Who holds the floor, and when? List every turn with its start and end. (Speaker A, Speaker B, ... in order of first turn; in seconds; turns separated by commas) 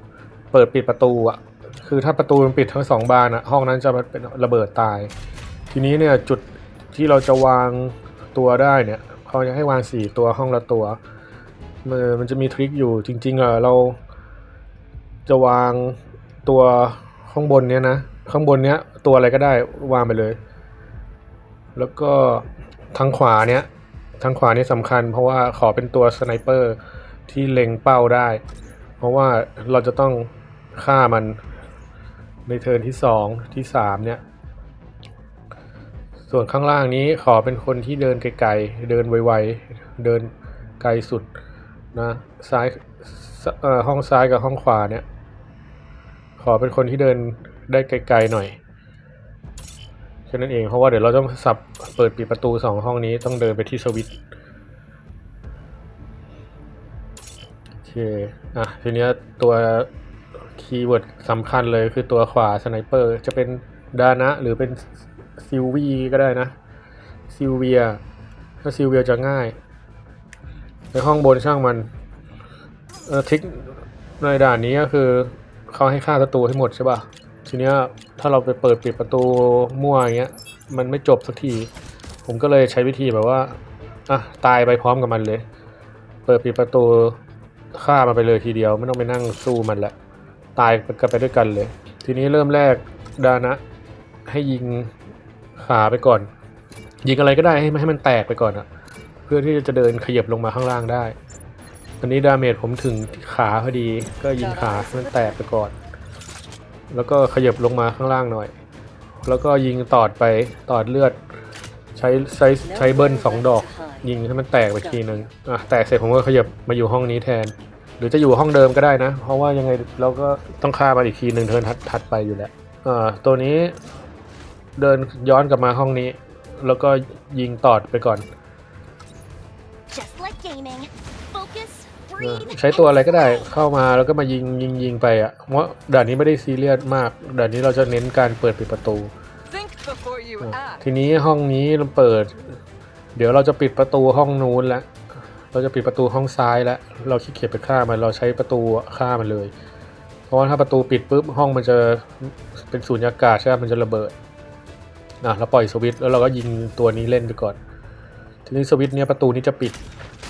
Speaker A: 0.5-5.1, Speaker A: 5.7-11.0, Speaker A: 11.8-14.0, Speaker A: 15.3-20.4, Speaker A: 21.8-23.7, Speaker A: 24.2-28.4, Speaker A: 29.0-31.4, Speaker A: 32.5-34.2, Speaker A: 36.3-41.3, Speaker A: 41.9-45.0, Speaker A: 46.4-48.6, Speaker A: 50.3-54.2, Speaker A: 57.8-59.9, Speaker A: 60.6-66.5, Speaker A: 67.3-68.0, Speaker A: 68.6-69.6, Speaker A: 70.9-71.9, Speaker A: 73.0-81.7, Speaker A: 82.3-85.4, Speaker A: 86.3-87.2, Speaker A: 87.7-89.9, Speaker A: 90.6-93.6, Speaker A: 94.3-94.9, Speaker A: 95.6-96.3, Speaker A: 97.0-98.7, Speaker A: 99.3-101.2, Speaker A: 102.0-105.7, Speaker B: 104.4-105.2, Speaker C: 104.6-105.3, Speaker A: 106.9-108.5, Speaker A: 109.2-111.2, Speaker A: 112.0-123.8, Speaker C: 112.6-114.1, Speaker C: 114.6-115.2, Speaker A: 124.8-128.2, Speaker C: 129.9-133.6, Speaker A: 132.2-139.1, Speaker B: 139.5-140.8, Speaker A: 140.4-142.6, Speaker A: 143.2-144.9, Speaker A: 145.5-149.5, Speaker A: 150.3-154.1, Speaker A: 155.2-157.6, Speaker A: 158.5-159.8